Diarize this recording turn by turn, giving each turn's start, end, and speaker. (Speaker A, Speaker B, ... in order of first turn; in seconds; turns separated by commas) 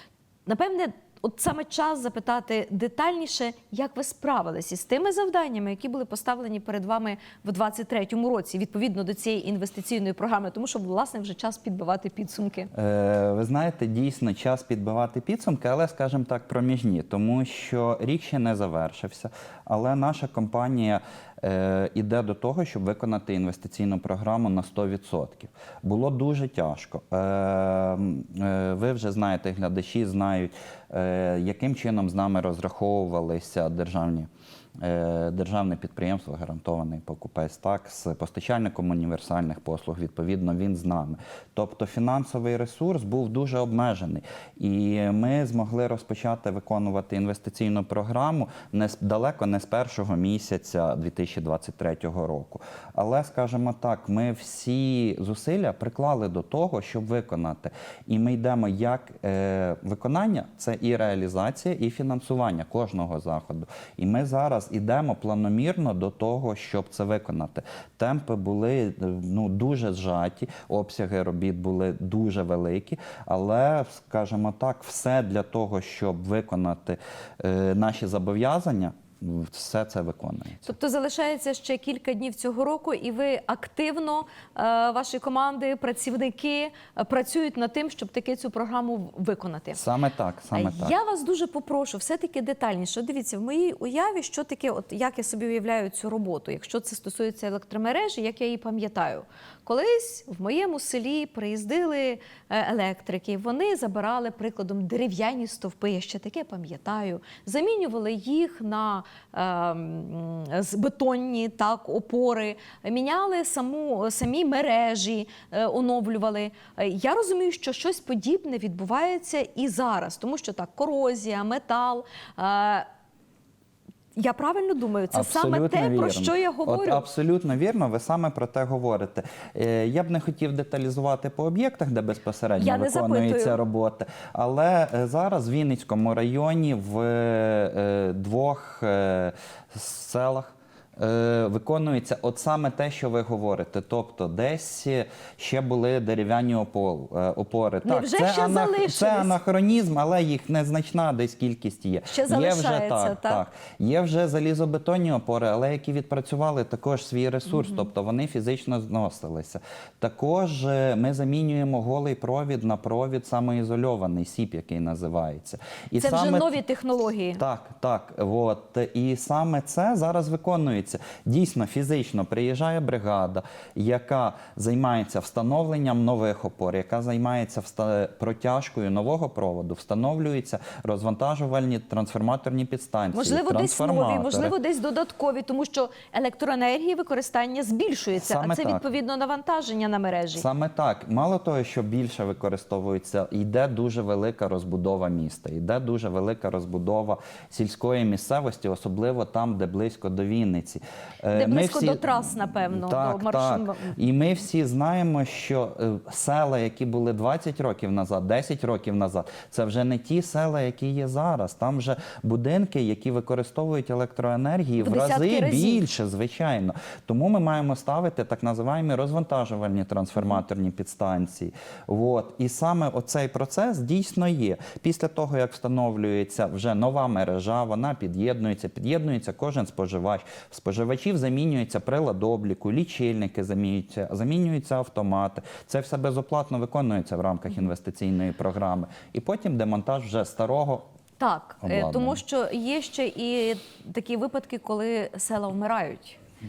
Speaker A: 0.5-12.7, Speaker B: 12.7-80.7, Speaker A: 80.6-89.8, Speaker B: 89.8-91.0, Speaker A: 90.5-122.9, Speaker A: 124.2-127.0, Speaker B: 125.1-166.6, Speaker A: 132.6-133.6, Speaker A: 147.8-149.3, Speaker A: 152.1-153.4, Speaker A: 157.5-157.8, Speaker A: 166.0-167.4, Speaker B: 167.4-184.5, Speaker A: 183.1-190.5, Speaker B: 188.2-188.8, Speaker B: 190.3-240.9, Speaker A: 201.3-204.0, Speaker A: 214.8-215.8, Speaker A: 241.2-246.2, Speaker B: 241.6-242.2